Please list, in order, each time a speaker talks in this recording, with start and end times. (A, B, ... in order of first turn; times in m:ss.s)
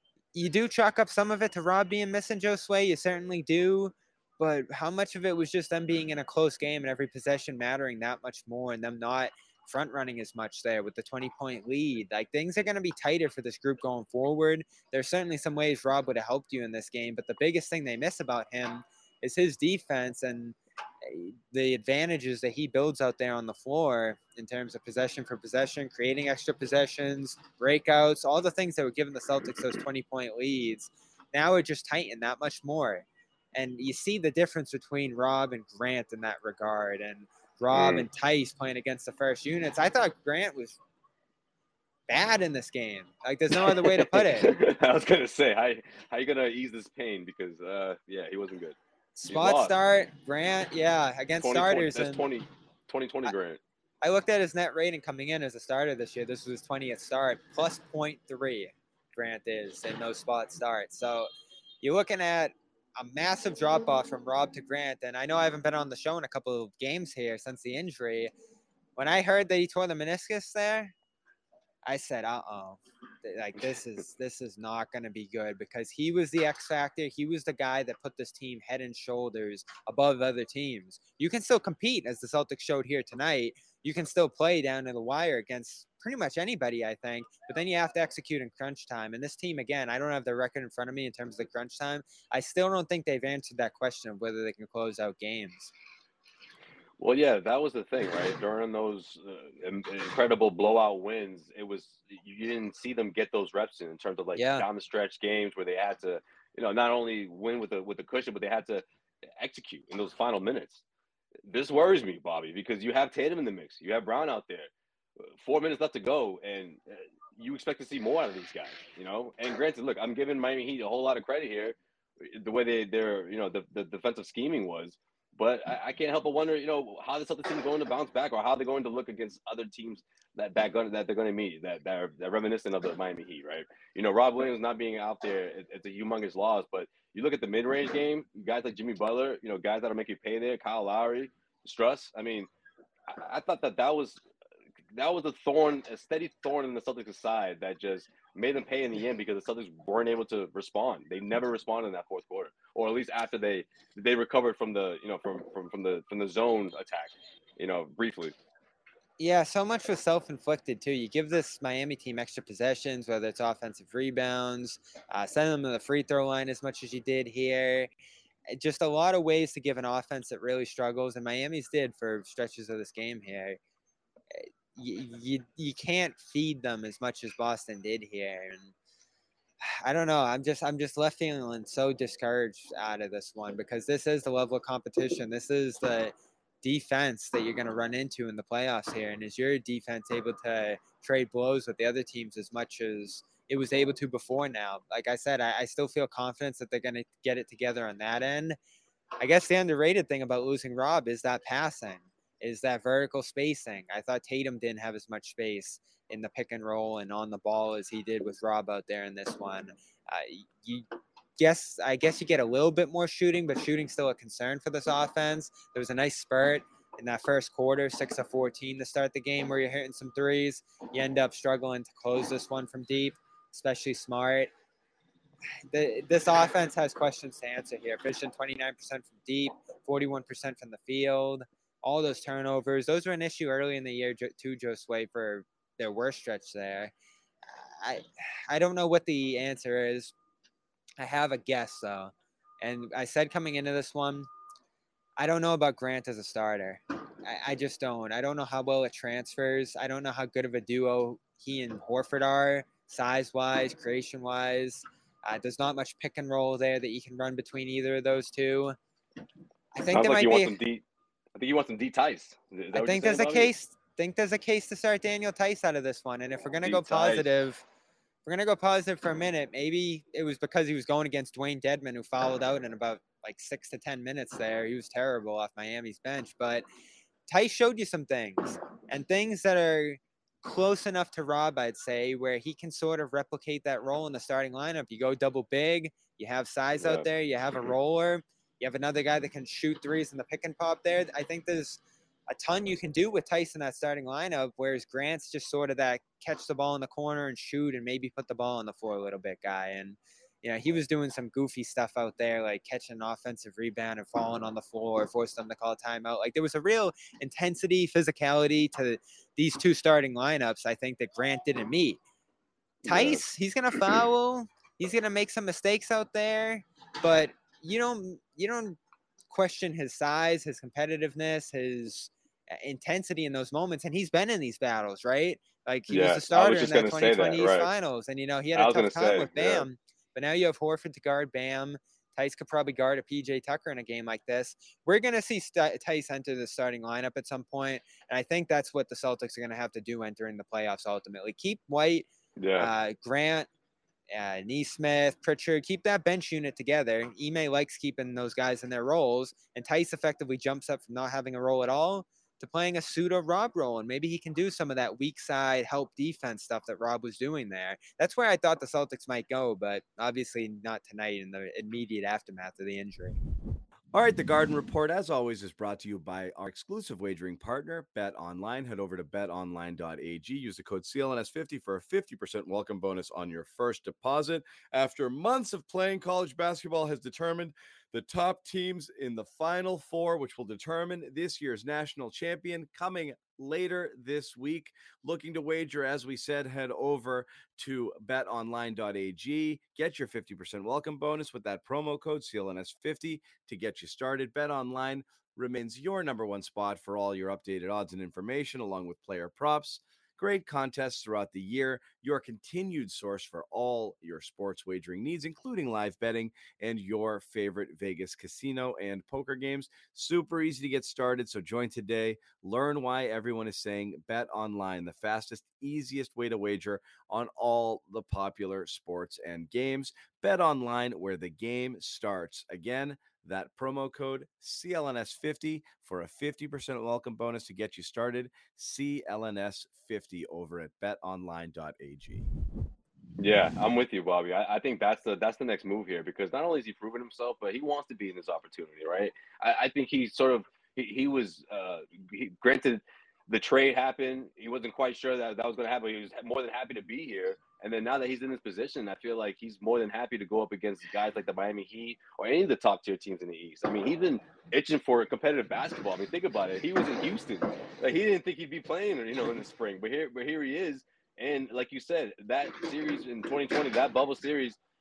0:00.3-0:40.8 A
0:37.7-0:38.1 B
0:42.1-0:44.5 A
0:43.6-0:49.8 B
0:49.2-0:52.2 A
0:51.4-0:53.6 B
0:54.0-1:01.3 A
1:01.8-1:08.3 A
1:09.0-1:10.9 A
1:11.9-1:35.7 A
1:37.0-1:48.8 B
1:44.4-1:44.6 A
1:49.4-1:50.8 B
1:51.5-1:54.7 B
1:55.4-2:22.5 B
2:23.1-2:24.2 B
2:24.9-2:38.4 B
2:39.2-2:47.9 A
2:48.5-2:53.6 A
2:54.3-2:58.7 A
2:59.6-3:18.6 A
3:19.2-3:30.9 A
3:31.4-3:44.5 A
3:45.7-3:56.9 A
3:57.5-4:00.1 A
4:01.0-4:04.3 A
4:05.2-4:18.8 A
4:19.8-4:20.5 A
4:19.9-4:20.8 B
4:21.4-4:23.5 B
4:22.7-4:27.6 A
4:26.6-4:27.3 B
4:28.3-4:36.6 A
4:37.3-5:12.0 A
4:46.8-4:47.1 B
5:12.8-5:13.2 B
5:12.8-5:18.8 A
5:19.3-5:42.1 A
5:25.9-5:27.7 B
5:28.6-5:29.6 B
5:42.4-5:42.7 B
5:42.6-5:43.5 A
5:44.1-6:03.2 A
6:03.9-7:12.3 C
7:13.2-7:44.6 B